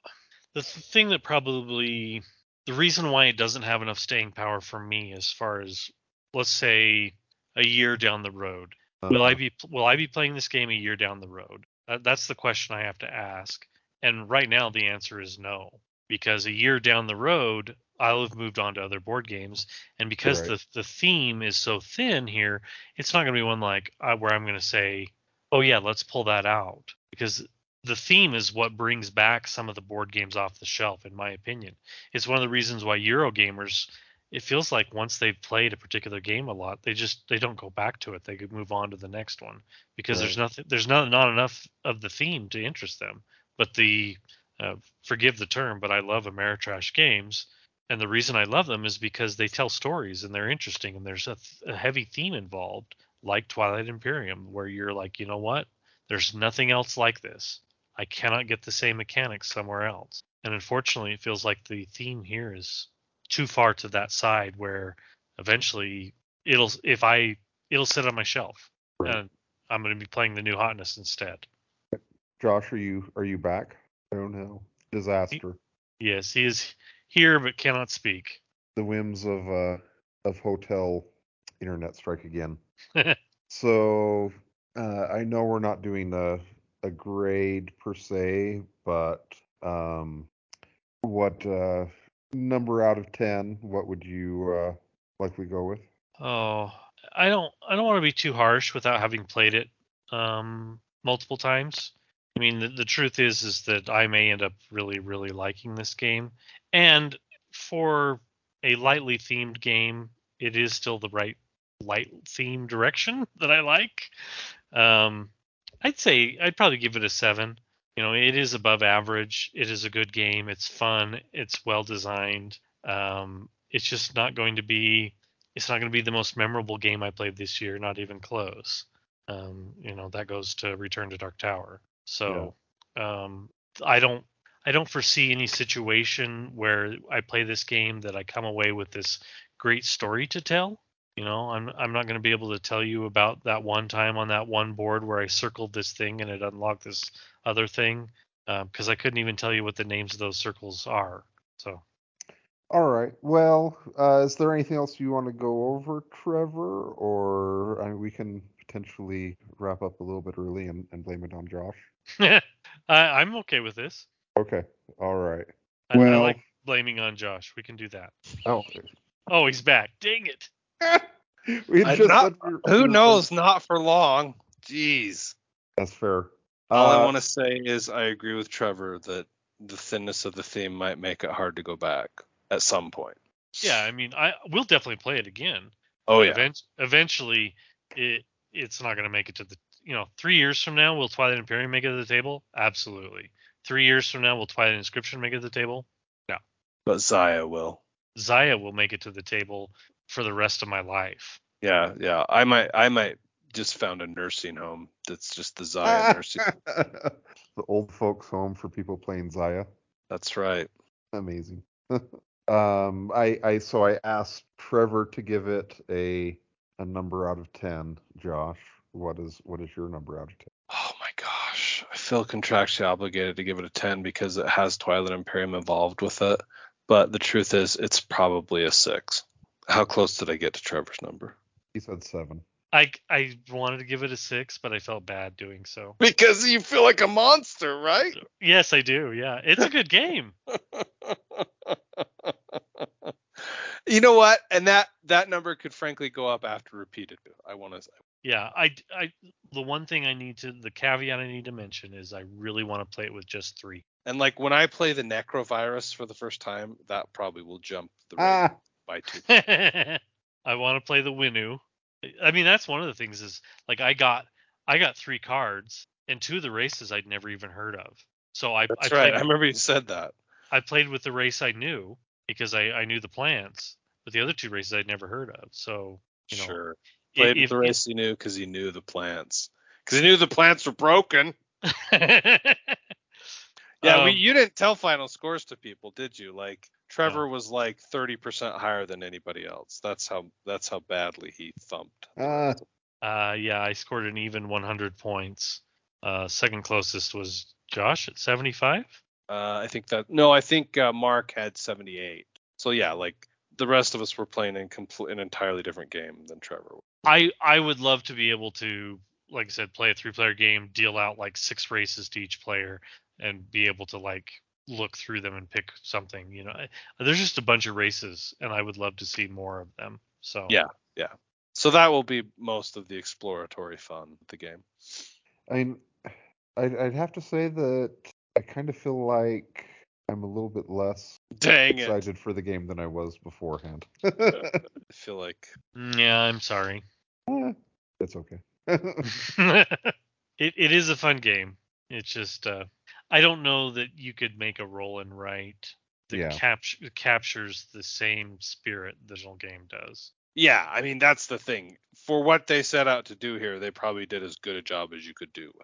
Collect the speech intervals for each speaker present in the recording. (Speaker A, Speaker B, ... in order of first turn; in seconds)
Speaker A: 0.5-71.5, 76.0-78.4, 96.2-114.1, 114.7-115.3, 115.8-151.8, 162.2-164.1, 165.9-168.1, 169.3-170.5, 183.6-196.4, 198.1-201.4, 232.7-236.0, 238.2-240.3, 248.2-253.8, 259.2-269.3, 270.5-276.6, 277.1-277.8, 281.7-282.8, 283.8-284.2, 293.0-298.9, 307.0-320.6, 335.7-336.8, 339.0-350.1
Speaker B: 9.0-9.4, 20.2-20.5, 40.1-40.4, 71.9-75.6, 78.8-82.6, 83.5-90.3, 91.0-95.8, 152.7-161.8, 164.3-166.4, 168.4-168.8, 170.8-173.2, 175.8-177.1, 205.8-209.7, 211.1-220.5, 231.7-232.4, 258.2-258.5, 292.2-292.6, 325.5-331.2, 331.7-334.6, 337.3-339.2, 346.1-346.4
Speaker C: 171.8-175.3, 176.7-183.8, 186.1-186.4, 196.8-197.8, 201.6-206.5, 210.1-210.7, 220.7-231.3, 236.0-238.2, 240.7-247.9, 254.1-259.3, 268.7-270.1, 276.3-281.3, 283.8-292.6, 299.3-306.8, 320.5-325.1, 331.4-332.0, 334.9-335.5, 350.3-355.6